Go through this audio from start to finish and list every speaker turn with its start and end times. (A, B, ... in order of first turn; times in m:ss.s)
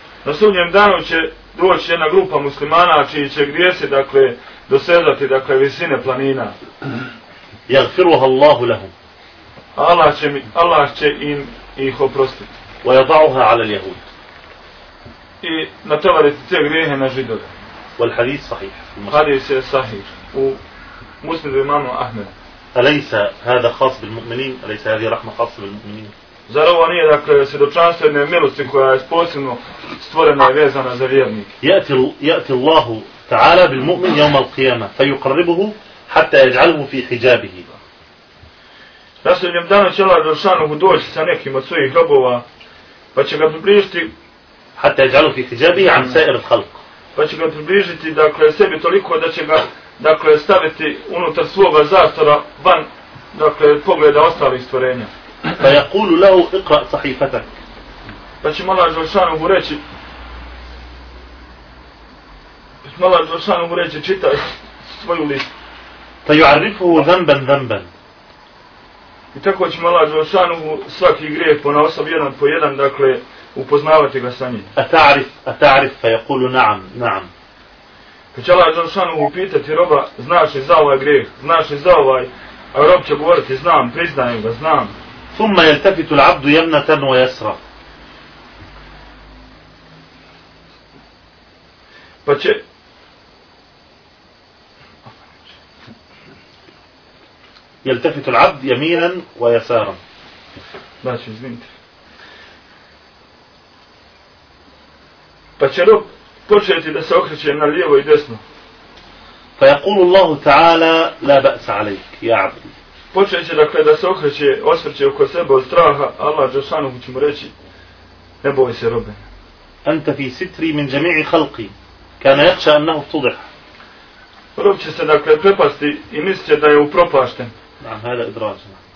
0:00.2-0:06.5 A
0:07.7-0:08.9 B
0:09.8-0:12.5 A
0:12.8-0:14.0 B
0:15.4-0:17.5 A
0:18.0-0:19.2 B
0:19.1-0:20.6 A
0:21.2-0:22.3 A
0:22.7-0:26.1 B
0:26.5-0:31.5 A
0:31.6-0:37.6 B
0:39.2-0:42.4 A
0:43.1-0:44.1 A
0:44.8-0:46.8 B
0:47.2-0:55.1 A
0:55.6-0:57.5 B
0:58.4-0:59.8 A
1:02.8-1:05.5 A
1:06.2-1:07.9 B
1:09.3-1:14.7 A
1:14.7-1:17.3 B
1:18.3-1:24.9 A
1:25.3-1:27.6 B
1:32.2-1:32.6 A
1:37.8-1:40.0 B
1:41.0-1:41.7 A
1:45.6-1:48.4 A
1:49.6-1:52.7 B
1:53.1-1:57.5 A
1:58.4-1:59.2 A
1:59.8-2:03.4 B
2:04.6-2:07.5 A
2:07.8-2:08.8 B